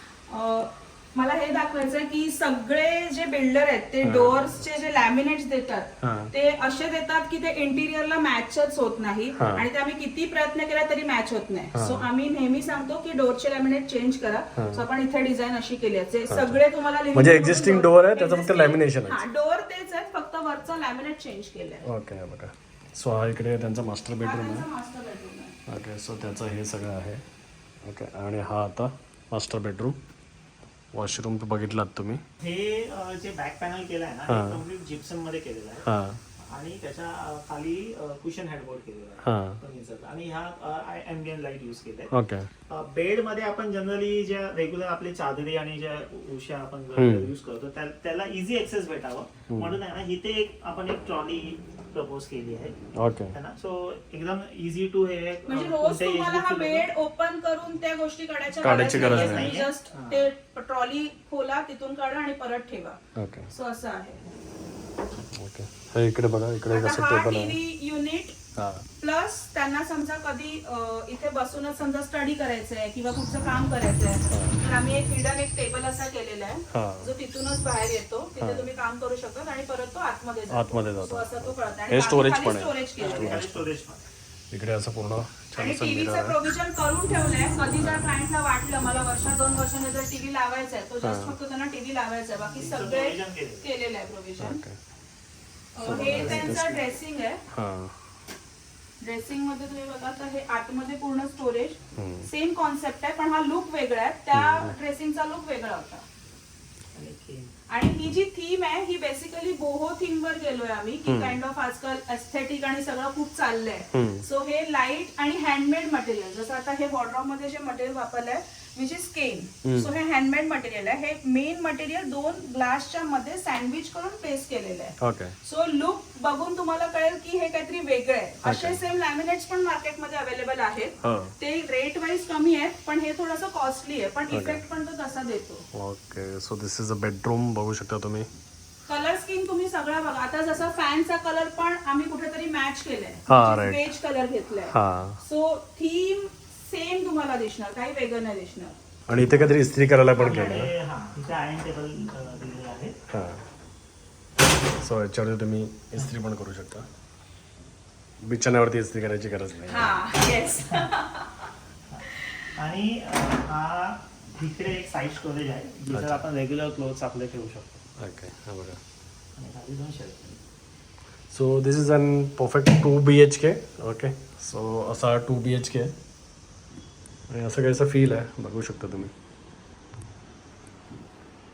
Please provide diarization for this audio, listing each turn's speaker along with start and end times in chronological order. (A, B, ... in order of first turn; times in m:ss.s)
0:00.3-0:21.8 A
0:04.0-0:04.6 B
0:06.0-0:06.3 B
0:09.4-0:09.6 B
0:11.7-0:12.0 B
0:14.6-0:14.8 B
0:16.3-0:16.6 B
0:17.1-0:19.2 B
0:21.8-0:24.6 B
0:24.2-0:25.6 A
0:25.7-0:27.2 B
0:27.8-0:30.0 B
0:30.9-0:32.2 B
0:32.4-0:35.8 C
0:34.3-0:34.6 B
0:35.8-0:36.2 B
0:36.4-0:42.1 C
0:39.2-0:39.6 B
0:42.1-0:42.5 B
0:42.7-0:52.7 C
0:47.0-0:47.3 B
0:49.5-0:49.8 B
0:53.0-0:53.3 B
0:53.3-0:56.9 C
0:55.5-1:03.0 A
0:58.6-0:59.5 B
0:58.7-1:00.3 C
1:03.2-1:03.5 B
1:03.5-1:04.2 A
1:05.3-1:07.6 B
1:06.7-1:08.4 A
1:08.6-1:08.8 B
1:09.0-1:23.4 A
1:14.3-1:14.6 B
1:16.7-1:17.1 B
1:18.4-1:18.7 B
1:20.5-1:23.7 B
1:23.0-1:24.0 C
1:24.5-1:26.4 B
1:25.6-1:34.6 A
1:27.8-1:28.0 B
1:31.0-1:31.3 B
1:32.5-1:33.7 C
1:34.4-1:34.7 B
1:35.7-1:37.4 A
1:35.8-1:36.8 B
1:35.8-1:36.6 C
1:37.5-1:37.9 B
1:39.0-1:46.0 A
1:42.0-1:42.3 B
1:44.3-1:44.7 B
1:46.9-1:47.5 C
1:47.7-2:15.6 A
1:51.0-1:51.4 B
1:53.9-1:54.2 B
1:59.6-1:59.9 B
2:05.0-2:05.3 B
2:08.4-2:08.8 B
2:11.0-2:11.3 B
2:14.3-2:14.6 B
2:15.7-2:18.3 B
2:18.9-2:28.8 A
2:23.3-2:23.9 B
2:24.7-2:25.2 B
2:29.1-2:30.7 B
2:30.2-2:32.9 C
2:30.2-2:30.7 A
2:33.1-2:33.4 B
2:34.8-2:36.9 B
2:38.2-2:40.0 B
2:39.7-2:41.3 A
2:42.2-2:42.5 A
2:42.6-2:47.8 C
2:45.9-2:46.2 B
2:48.0-2:48.8 B
2:49.4-2:50.4 C
2:51.3-2:55.9 B
2:57.3-2:59.1 B